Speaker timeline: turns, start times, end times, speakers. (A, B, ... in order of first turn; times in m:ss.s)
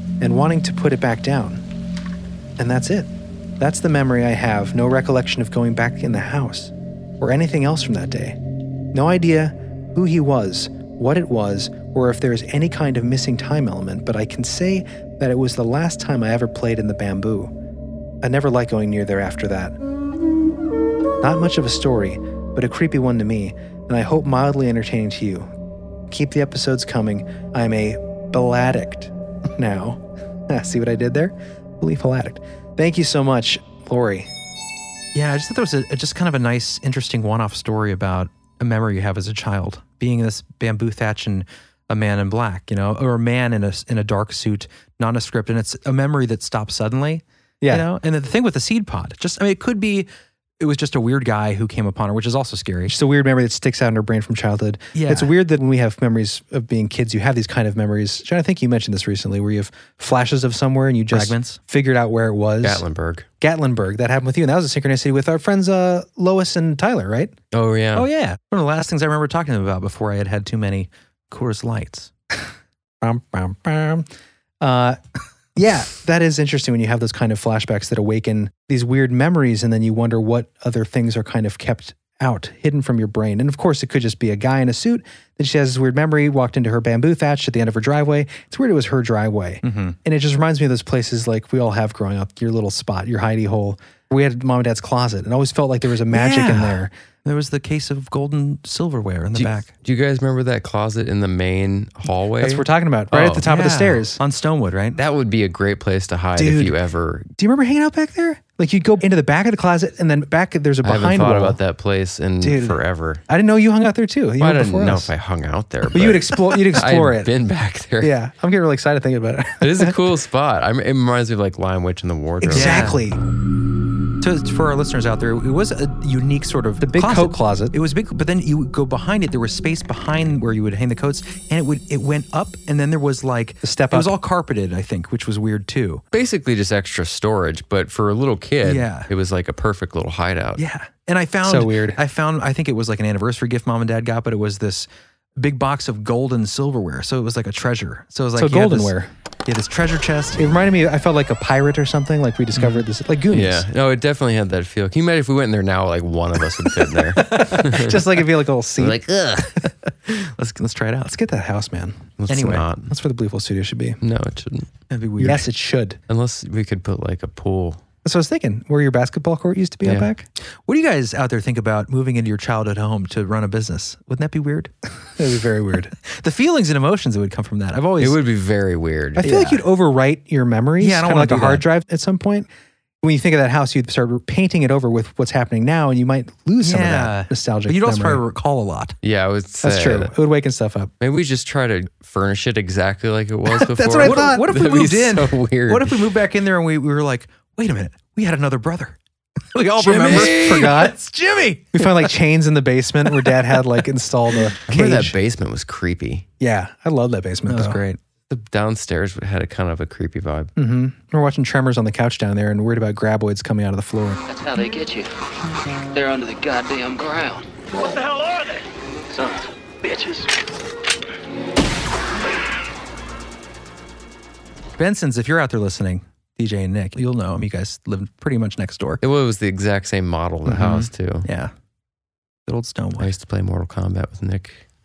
0:00.2-0:01.6 A
0:02.6-0:03.1 A
0:03.6-0:08.4 A
0:08.9-0:17.5 A
0:18.2-0:19.7 A
0:21.2-0:25.5 A
0:26.1-0:34.3 A
0:35.1-0:50.1 B
0:50.6-0:53.0 B
0:52.9-1:02.8 A
0:54.9-0:55.3 B
1:01.1-1:01.6 B
1:02.6-1:03.2 C
1:03.4-1:07.3 A
1:07.5-1:08.1 C
1:07.9-1:12.1 B
1:13.0-1:14.0 A
1:14.6-1:15.0 A
1:15.6-1:36.9 A
1:29.6-1:30.0 B
1:36.1-1:39.7 B
1:39.3-1:43.4 C
1:42.4-1:44.2 A
1:43.4-1:45.0 B
1:45.0-1:47.3 C
1:46.4-1:46.8 A
1:47.4-1:51.6 A
1:50.8-1:53.2 C
1:52.4-1:55.1 A
1:54.4-1:58.1 C
1:55.9-1:57.3 A
1:58.0-2:00.0 A
1:59.6-2:02.9 C
2:02.4-2:03.2 A
2:02.5-2:03.0 B
2:04.2-2:16.0 B
2:06.8-2:07.7 A
2:13.6-2:14.1 A
2:16.1-2:20.6 C
2:18.6-2:19.1 B
2:20.6-2:28.9 B
2:21.4-2:22.0 A
2:28.4-2:29.1 A
2:29.4-2:30.5 B
2:30.4-2:33.6 A
2:32.6-2:32.8 B
2:33.3-2:38.0 C
2:37.1-2:37.6 B
2:37.3-2:39.0 A
2:38.8-2:39.7 C
2:40.1-2:41.2 B
2:41.1-2:42.2 A
2:42.2-2:42.9 C
2:42.3-2:42.6 B
2:42.8-2:44.0 A
2:44.0-2:44.7 C
2:44.9-2:45.4 B
2:45.2-2:46.0 A
2:46.1-2:47.8 C
2:48.0-2:50.3 A
2:49.8-2:50.1 C
2:50.6-2:54.7 B
2:55.2-2:55.9 A
2:56.0-2:58.2 B
2:58.0-2:59.2 C
2:59.2-3:02.5 A
2:59.2-2:59.6 B
3:00.8-3:01.6 B
3:03.0-3:08.2 A
3:06.6-3:09.0 B
3:09.0-3:10.1 C
3:09.6-3:10.9 A
3:11.0-3:16.0 C
3:13.8-3:14.5 A
3:13.9-3:19.0 B
3:19.5-3:22.1 B
3:19.8-3:21.0 A
3:19.8-3:20.7 C
3:21.7-3:25.1 A
3:24.7-3:26.2 C
3:26.4-3:27.8 A
3:27.5-3:28.0 B
3:28.3-3:30.5 C
3:30.6-3:34.2 A
3:34.3-3:35.1 D
3:35.9-3:38.2 D
3:39.1-3:40.3 D
3:44.8-3:49.0 B
3:49.0-3:51.3 C
3:50.5-3:51.5 B
3:52.4-3:53.1 B
3:53.0-3:54.6 C